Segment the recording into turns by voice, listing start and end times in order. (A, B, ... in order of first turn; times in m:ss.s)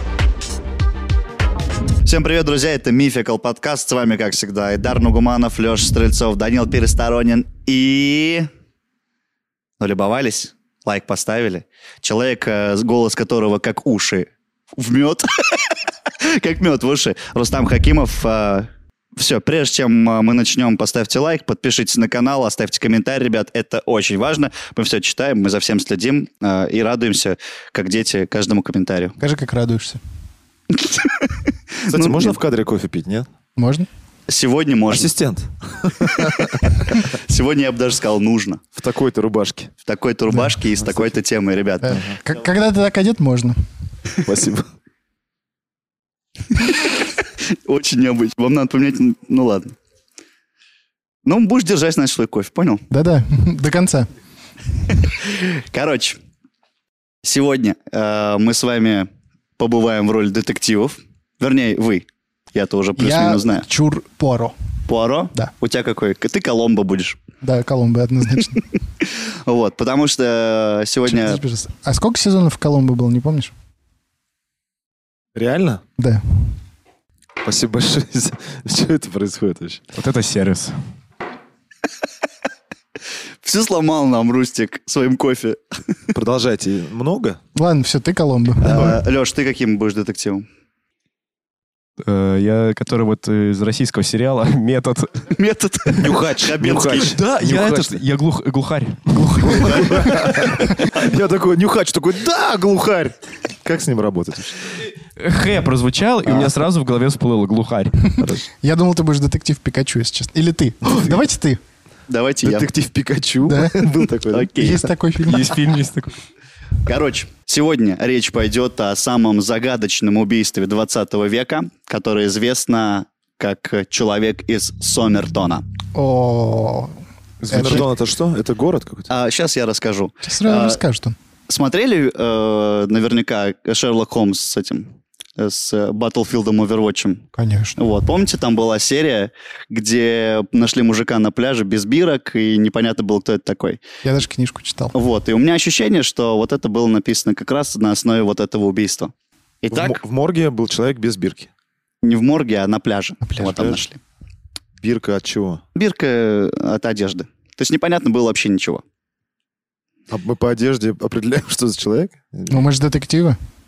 0:02.0-0:08.5 A
0:09.8-0:29.2 A
0:29.2-0:30.0 B
0:30.7-0:32.4 A
0:31.9-0:33.3 C
0:33.6-0:33.9 B
0:34.3-0:35.1 A
0:34.9-0:36.7 C
0:36.0-0:38.6 A
0:38.7-0:39.7 C
0:39.8-0:42.0 A
0:40.3-0:40.6 B
0:41.8-0:43.6 B
0:41.9-0:42.1 C
0:44.2-0:44.7 C
0:47.6-0:49.8 A
0:51.2-0:52.8 A
0:52.9-0:54.1 B
0:54.9-0:56.2 A
0:57.2-1:03.6 A
1:03.0-1:04.5 B
1:04.9-1:07.2 A
1:07.4-1:08.6 B
1:09.0-1:11.4 A
1:11.0-1:13.5 B
1:15.3-1:15.8 C
1:17.4-1:19.8 C
1:19.9-1:20.7 D
1:23.4-1:25.7 A
1:26.1-1:27.4 C
1:27.5-1:28.9 B
1:28.6-1:30.4 A
1:28.7-1:29.0 C
1:32.0-1:35.3 D
1:35.3-1:37.2 A
1:36.0-1:38.0 C
1:37.2-1:40.4 D
1:39.4-1:44.8 C
1:45.2-1:48.3 D
1:48.6-1:51.6 B
1:52.1-1:52.7 A
1:52.4-1:54.7 C
1:53.5-1:53.9 B
1:54.3-1:54.8 A
1:54.6-1:55.5 B
1:55.2-1:56.1 D
1:56.8-2:05.6 A
2:05.9-2:06.9 B
2:07.4-2:07.8 D
2:07.5-2:07.8 B
2:07.5-2:09.1 C
2:09.1-2:10.8 A
2:10.2-2:11.1 B
2:11.5-2:17.2 A
2:17.3-2:17.8 B
2:17.8-2:23.8 A
2:24.0-2:24.9 B
2:24.9-2:30.0 A
2:29.7-2:31.5 C
2:32.0-2:34.0 A
2:33.2-2:33.6 B
2:33.4-2:33.8 C
2:34.8-2:35.6 C
2:35.7-2:38.8 A
2:40.1-2:42.6 C
2:42.5-2:43.4 B